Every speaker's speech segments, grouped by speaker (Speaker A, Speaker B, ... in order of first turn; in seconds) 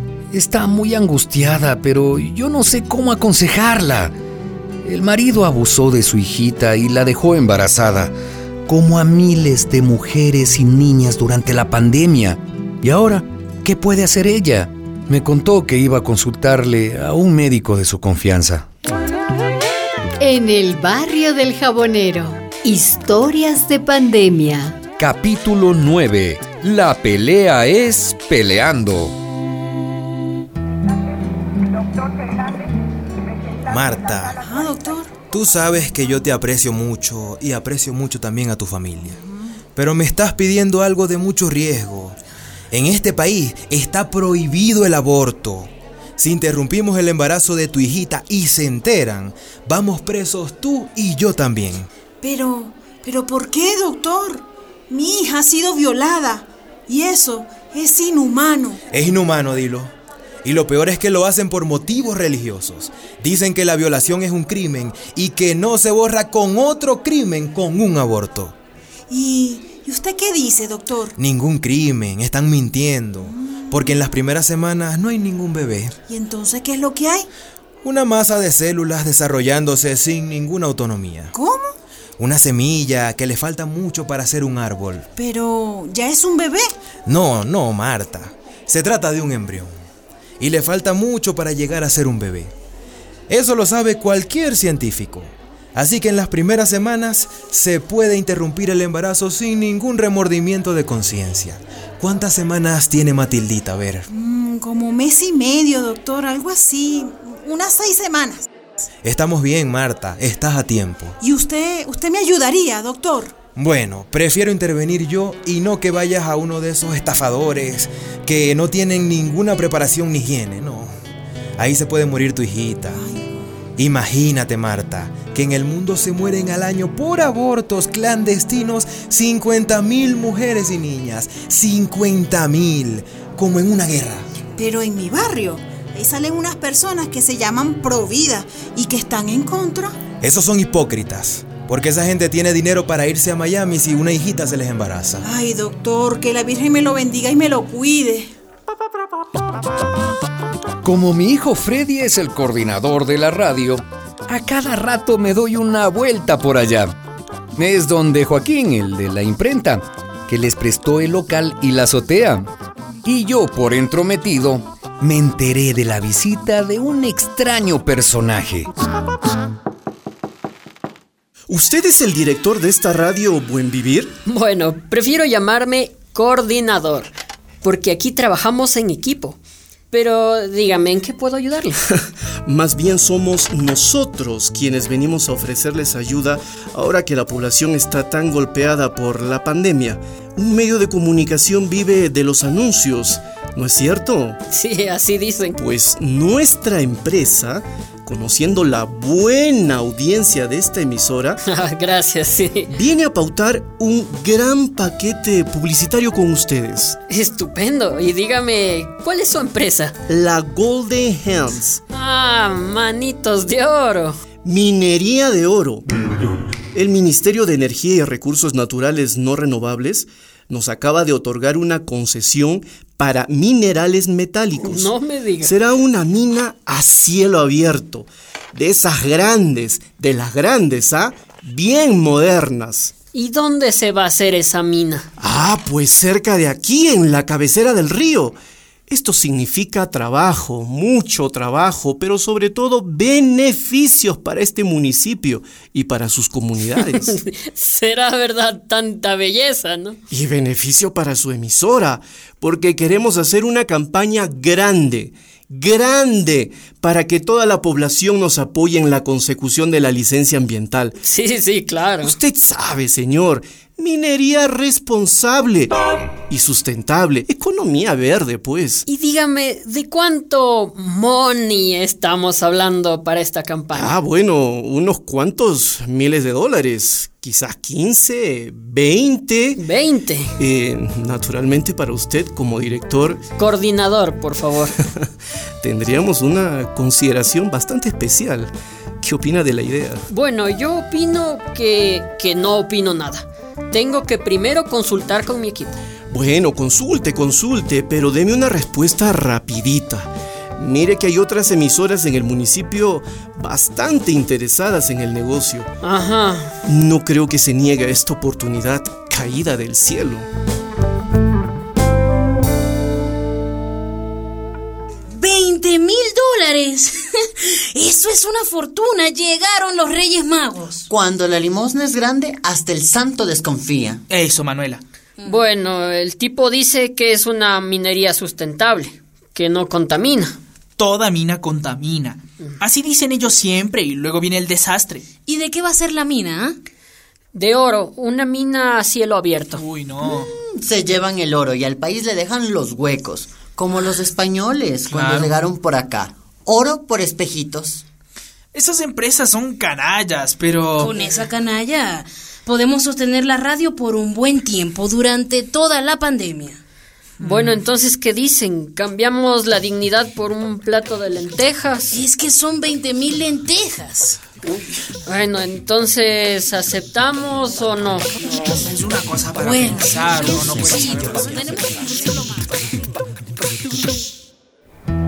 Speaker A: 0.3-4.1, 4.8-8.1, 8.7-18.6, 24.9-29.1, 150.8-156.9, 157.6-162.5, 163.1-168.7
Speaker B: 20.2-24.8
Speaker C: 33.7-34.4, 35.3-39.2, 39.7-42.2, 42.7-51.9, 58.9-59.9, 60.4-68.5, 71.2-76.0, 77.8-81.3, 82.2-85.1, 87.1-89.8, 90.4-92.5, 93.3-104.1, 109.0-111.2, 113.5-120.9, 121.6-123.0, 123.8-134.3, 140.2-145.3
Speaker D: 34.4-35.2, 39.1-39.4, 52.2-58.8, 69.1-71.1, 73.2-73.9, 76.1-77.3, 81.3-81.7, 85.2-86.7, 104.1-108.5, 111.2-113.3, 122.9-123.3, 134.6-140.0, 145.2-148.3
Speaker E: 171.5-174.2, 181.9-194.4, 195.6-201.4, 202.7-207.0, 210.1-211.8, 214.4-232.9, 235.2-238.3, 238.9-247.2, 250.1-260.9, 262.0-268.9, 273.7-279.6, 280.4-283.2, 285.6-290.0, 296.1-305.7, 306.7-310.3
Speaker F: 174.2-177.1, 177.6-179.4, 179.9-181.8, 194.5-195.6, 201.4-202.7, 207.1-209.9, 211.9-214.2, 224.6-225.5, 233.1-235.1, 246.8-250.0, 261.0-262.2, 268.9-274.0, 279.6-280.3, 283.4-284.7, 290.1-295.8, 305.8-306.5, 325.2-330.4, 337.3-339.6, 357.2-362.0, 365.1-368.4
Speaker G: 315.2-320.9, 335.2-336.6, 350.8-356.6, 361.9-364.2, 369.4-372.7
Speaker H: 320.9-324.0, 340.0-347.8
Speaker I: 324.1-324.8, 330.8-335.1, 339.5-340.3, 344.9-345.5, 348.5-350.9, 357.2-357.6, 368.6-371.4